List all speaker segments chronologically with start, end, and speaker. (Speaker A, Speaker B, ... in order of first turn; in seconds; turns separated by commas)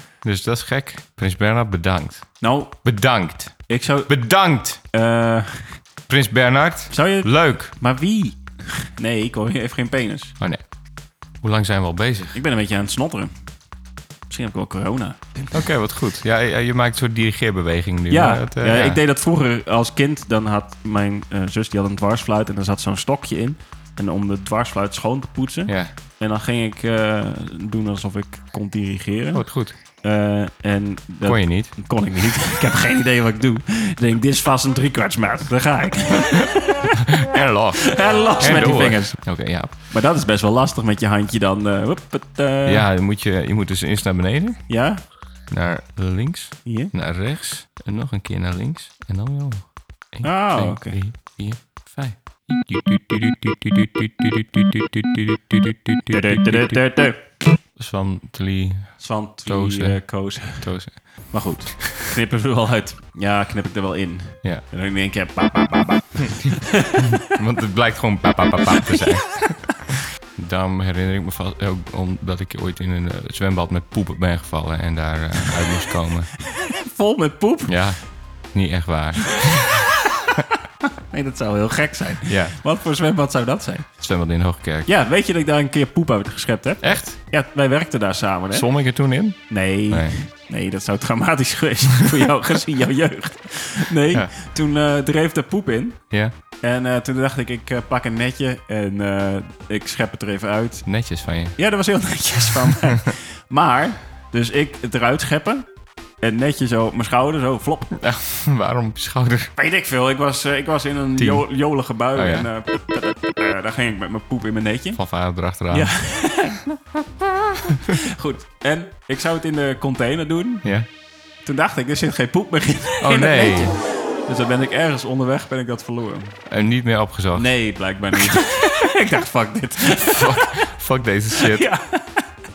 Speaker A: 0.2-4.8, Speaker B: 2.4-2.7, Speaker B: 3.7-4.1, Speaker B: 4.9-5.8, Speaker A: 6.1-7.7, Speaker B: 6.9-10.3, Speaker A: 11.4-12.4, Speaker B: 12.3-13.3, Speaker B: 14.3-15.6, Speaker A: 15.5-19.0, Speaker B: 18.1-36.9, Speaker A: 29.3-29.8, Speaker A: 31.2-31.7, Speaker A: 37.0-39.7, Speaker B: 37.8-39.2, Speaker B: 39.8-42.9, Speaker A: 42.6-44.6, Speaker B: 44.7-45.0, Speaker A: 45.5-56.8, Speaker B: 46.6-46.9, Speaker B: 50.2-51.0, Speaker B: 56.1-57.2, Speaker A: 57.8-60.0, Speaker B: 59.0-60.7, Speaker A: 60.5-61.2, Speaker B: 61.3-67.3, Speaker A: 67.0-76.3, Speaker B: 76.7-77.8, Speaker A: 77.7-78.0, Speaker A: 78.5-79.9, Speaker B: 80.8-83.9, Speaker A: 82.3-82.5, Speaker A: 84.0-84.9, Speaker B: 84.8-88.7, Speaker A: 86.8-87.1, Speaker A: 88.5-90.2, Speaker B: 89.5-96.0, Speaker B: 96.6-100.8, Speaker A: 100.8-101.6, Speaker B: 101.6-105.6, Speaker B: 106.2-108.0, Speaker A: 108.0-109.5, Speaker B: 109.5-115.0, Speaker A: 111.2-111.5, Speaker A: 112.1-112.5, Speaker A: 115.0-115.9, Speaker B: 115.7-120.6, Speaker B: 121.4-126.4, Speaker A: 123.0-123.8, Speaker A: 126.5-127.5, Speaker B: 127.3-130.7, Speaker A: 128.1-128.4, Speaker A: 129.9-131.7, Speaker B: 131.3-132.3